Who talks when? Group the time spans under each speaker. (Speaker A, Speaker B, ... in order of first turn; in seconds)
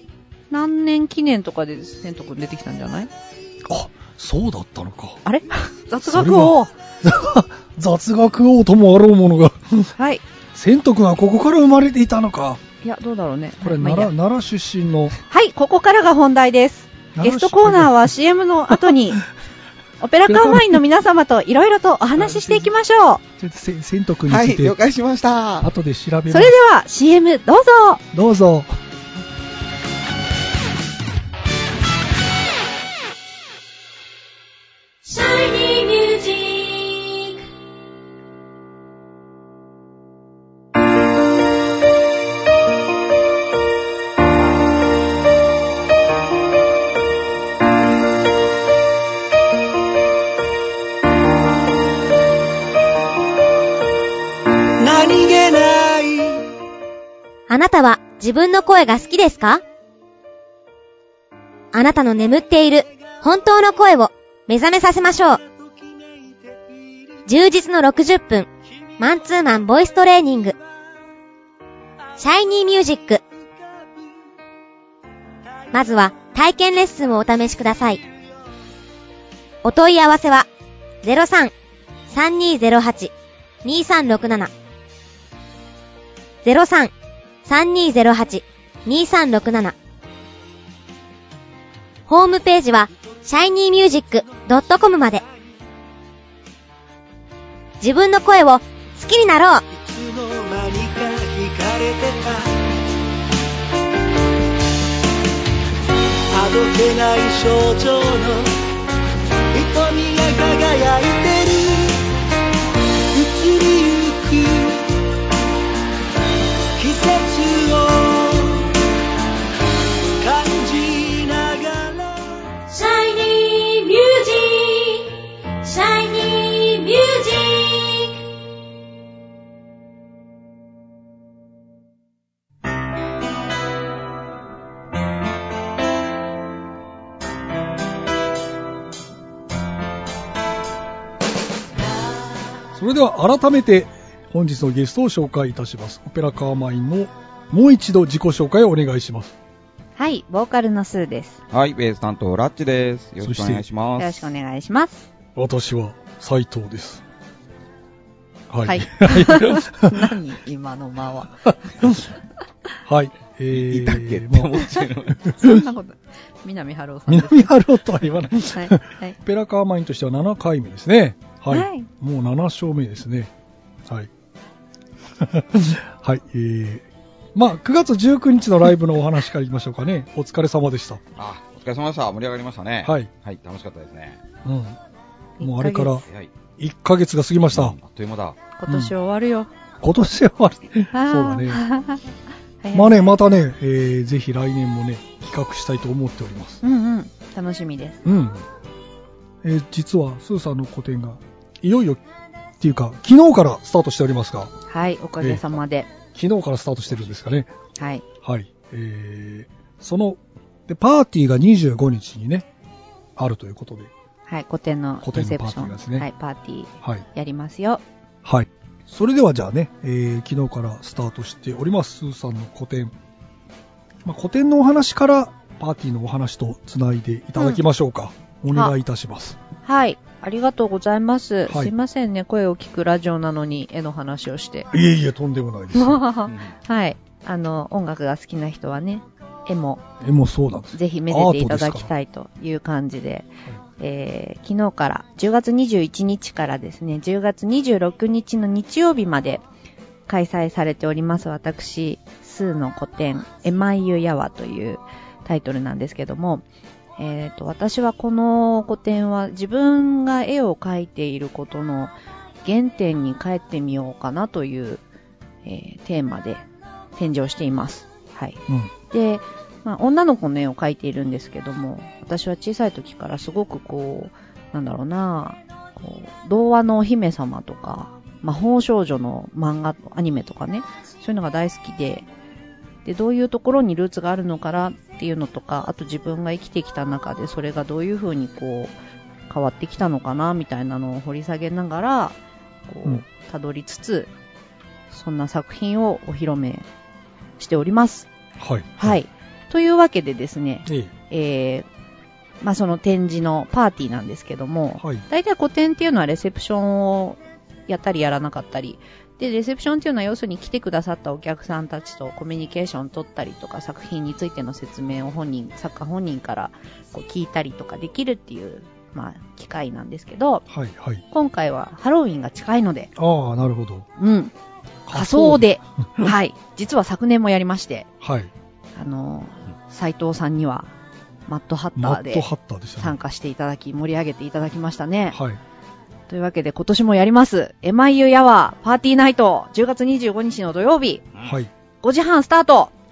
Speaker A: 0.5-3.1, 5.2-6.7, 10.0-10.2, 12.8-14.1, 15.3-19.2, 20.0-23.2, 26.3-28.0, 150.0-151.4, 154.0-155.1, 158.6-162.0, 165.4-167.5, 168.5-169.2, 171.5-171.9, 185.4-186.0, 188.6-189.5, 190.9-192.1, 192.6-193.0, 196.6-198.0, 204.7-205.9, 207.8-208.0, 214.3-217.8, 229.6-234.7, 235.7-239.8, 240.7-249.4, 250.1-256.4, 257.0-264.8, 265.4-266.4, 267.0-282.1, 282.9-288.8, 289.3-294.1, 294.9-296.7, 297.4-298.1, 298.8-301.7, 302.4-320.4, 321.1-322.9, 324.0-324.3, 324.9-327.9, 328.8-330.7, 331.3-335.2, 336.1-341.1, 341.8-342.7
Speaker B: 3.7-5.2, 6.0-9.9, 10.5-12.6, 13.6-15.2, 17.1-18.1, 18.7-19.0, 20.3-20.8, 22.2-22.7, 23.4-24.8, 25.6-26.6, 28.1-28.8, 142.8-149.3, 153.2-153.7, 155.3-157.0, 158.5-160.1, 161.5-162.1, 162.8-165.6, 167.1-173.3, 175.2-181.0, 182.8-183.1, 184.4-184.8, 185.4-186.1, 186.6-187.8, 188.7-188.9, 189.8-191.6, 192.7-196.6, 198.0-198.4, 199.4-202.0, 202.6-204.6, 206.1-207.5, 208.2-212.5, 213.2-213.9, 215.0-216.1, 218.2-222.9, 224.1-229.4, 231.5-231.7, 234.7-236.0, 240.0-241.9, 298.4-299.0, 300.7-300.9, 304.8-305.0, 320.5-321.0, 323.0-323.9, 324.9-326.1, 328.0-328.3, 331.8-333.0, 335.1-335.4, 341.2-341.5
Speaker C: 24.3-25.7, 151.5-154.3, 163.5-165.3, 181.2-184.2, 187.5-188.4, 236.3-236.5
Speaker D: 35.0-37.4, 57.5-59.6, 61.7-65.4, 67.3-68.5, 69.0-70.6, 72.2-73.2, 75.7-78.0, 79.6-80.5, 81.0-81.5, 82.1-83.1, 83.6-84.5, 86.4-86.9, 87.5-89.8, 92.1-95.2, 97.8-99.6, 122.7-128.2
Speaker E: 54.8-56.5, 99.7-102.5, 106.3-108.5, 109.5-112.0, 113.1-114.9, 116.8-118.8, 120.2-122.4